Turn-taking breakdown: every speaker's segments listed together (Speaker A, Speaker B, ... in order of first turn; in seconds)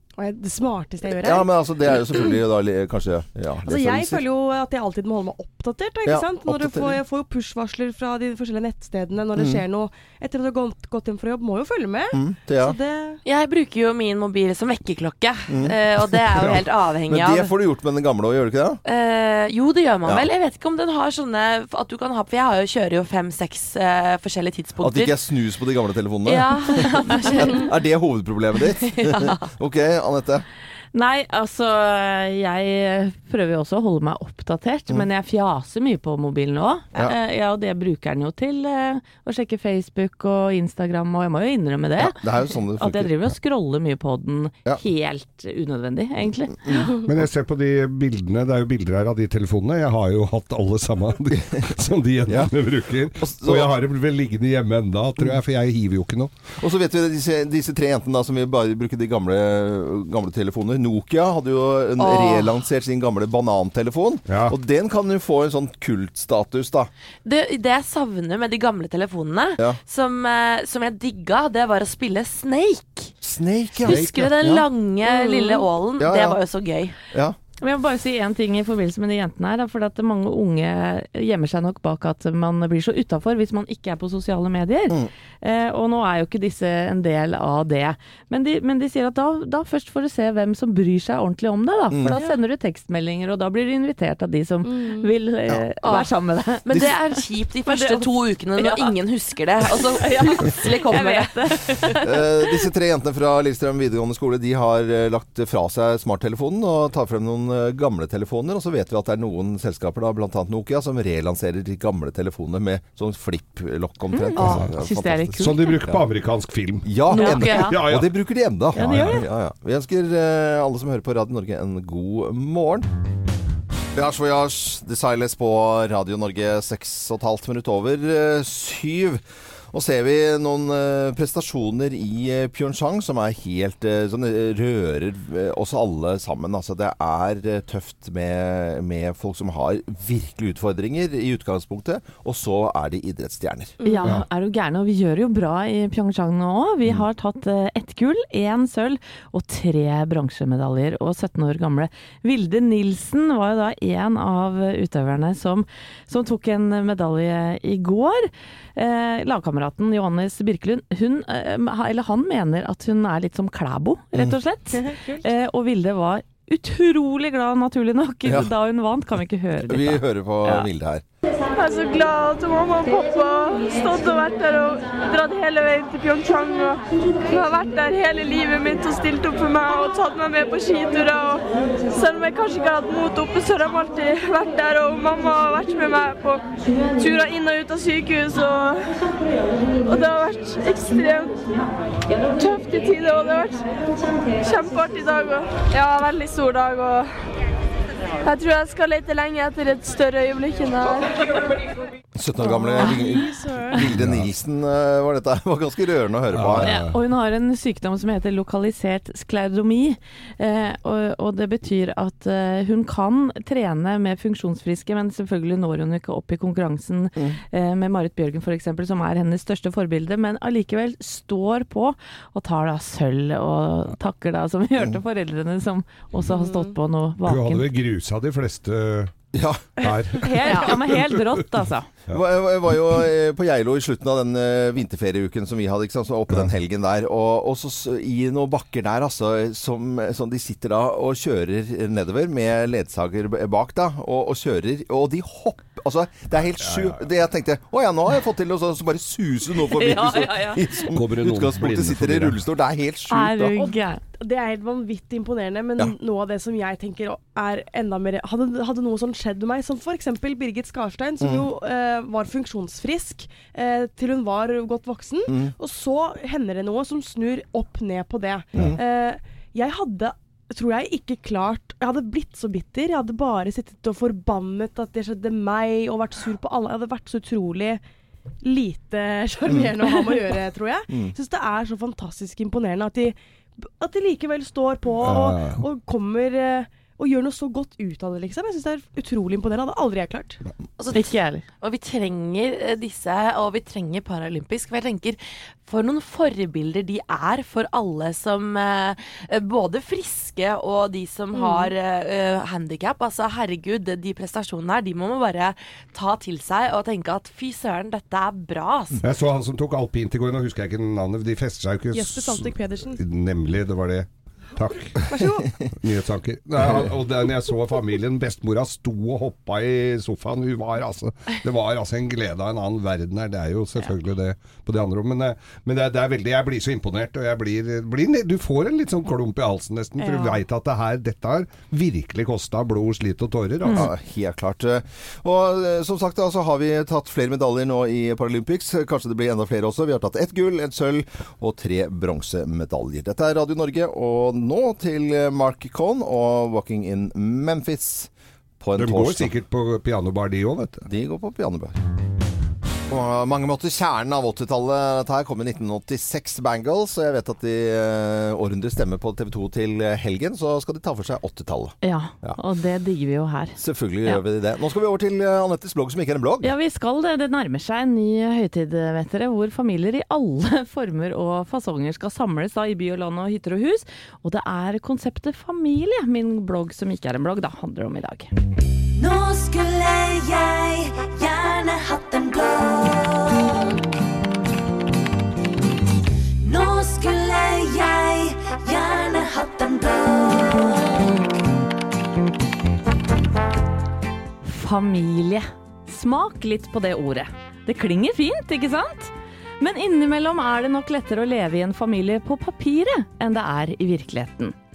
Speaker A: 0.2-2.4, 3.6-13.2, 94.6-95.1, 143.8-144.2, 164.8-165.3, 202.4-203.8, 226.3-226.7, 253.6-277.8, 278.4-290.4, 311.9-313.0, 315.1-315.5, 330.1-330.4
Speaker B: 1.0-4.2, 6.0-7.0, 9.3-9.6, 12.1-12.8, 15.5-18.8, 24.8-30.4, 42.0-43.1, 46.6-47.0, 51.5-52.5, 53.2-53.7, 56.6-66.9, 73.2-74.7, 76.0-76.4, 77.1-77.4, 91.9-92.2, 102.0-116.0, 116.8-122.9, 123.9-143.8, 168.2-168.5, 169.6-171.0, 202.1-206.8, 229.3-229.9, 232.1-253.6, 261.2-261.5, 265.3-265.5, 279.5-279.9, 280.9-281.1, 315.2-315.7, 333.7-348.1, 348.6-349.3, 350.8-351.8, 352.9-362.4, 363.6-366.5
Speaker C: 13.2-17.5, 18.8-25.2, 26.2-27.7, 28.8-29.4, 62.0-62.5, 67.2-73.1, 73.8-77.0, 95.8-96.1, 96.6-102.0, 290.8-291.1, 291.6-309.0
Speaker D: 30.9-42.2, 42.8-46.8, 77.6-96.9, 97.7-98.9, 99.9-102.0, 114.1-115.7, 117.1-117.8, 118.7-119.2, 143.8-170.7, 206.6-227.6, 230.2-231.9, 249.8-250.6, 253.1-254.0, 290.9-291.4, 301.4-301.7, 361.8-364.2, 366.4-378.3, 394.4-404.5
Speaker E: 47.0-56.3, 64.3-64.5, 114.4-114.7, 115.4-118.1, 118.8-119.2, 203.9-204.3, 206.3-207.0, 227.2-229.1, 229.8-231.2, 246.6-247.0, 250.9-252.4, 285.0-285.6, 309.0-315.1, 315.8-333.9, 348.8-350.9
Speaker F: 171.6-186.4, 187.0-188.9, 189.8-191.4, 192.3-193.6, 194.4-197.1, 198.2-201.3
Speaker G: 379.0-383.4, 386.4-390.7